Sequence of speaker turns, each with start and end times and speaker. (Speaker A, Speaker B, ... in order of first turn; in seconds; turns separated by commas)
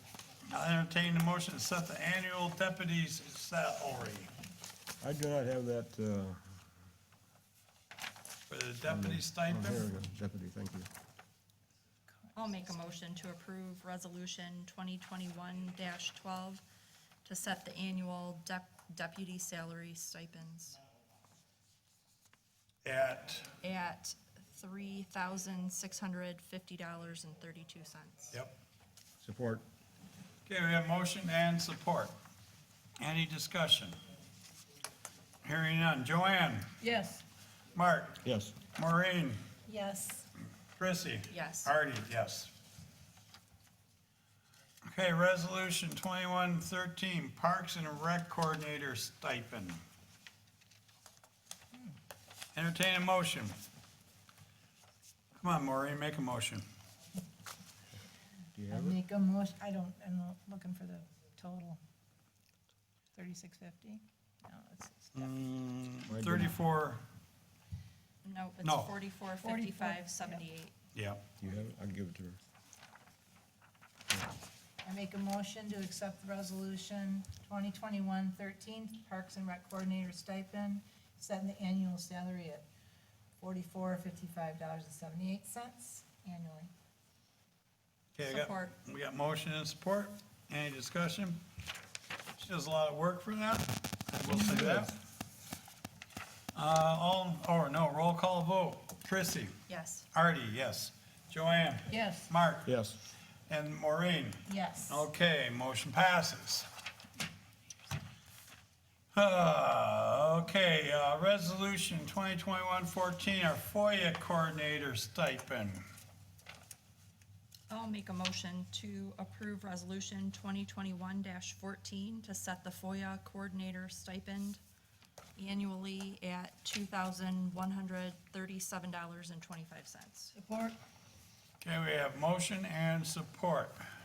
Speaker A: 0.5-4.3, Speaker B: 5.0-6.5, Speaker A: 8.5-9.9, Speaker B: 8.9-10.9, Speaker C: 12.3-16.6, Speaker C: 17.2-20.8, Speaker A: 22.8-23.5, Speaker C: 23.6-28.3, Speaker B: 29.2-29.6, Speaker A: 30.4-32.1, Speaker A: 33.0-34.0, Speaker A: 35.4-36.7, Speaker D: 36.8-37.2, Speaker A: 37.7-39.4, Speaker B: 38.2-38.5, Speaker D: 39.7-40.3, Speaker A: 40.8-42.5, Speaker C: 41.3-41.7, Speaker A: 44.8-49.8, Speaker A: 52.5-53.5, Speaker A: 55.4-56.6, Speaker B: 58.5-59.0, Speaker D: 58.7-61.8, Speaker D: 63.1-65.3, Speaker A: 65.1-67.0, Speaker B: 66.1-66.5, Speaker C: 68.2-70.7, Speaker A: 68.6-68.9, Speaker D: 69.4-70.4, Speaker A: 70.9-71.2, Speaker B: 71.4-72.4, Speaker D: 74.8-82.6, Speaker D: 83.4-86.7, Speaker A: 88.2-91.4, Speaker C: 88.2-88.7, Speaker A: 92.4-95.0, Speaker B: 94.2-94.9, Speaker A: 96.5-99.5, Speaker C: 99.7-100.1, Speaker A: 100.1-102.7, Speaker D: 101.9-102.3, Speaker B: 102.7-102.9, Speaker A: 103.5-106.7, Speaker D: 104.5-105.0, Speaker A: 109.1-115.8, Speaker C: 117.7-124.6, Speaker C: 125.4-130.3, Speaker D: 130.3-130.8, Speaker A: 131.6-133.8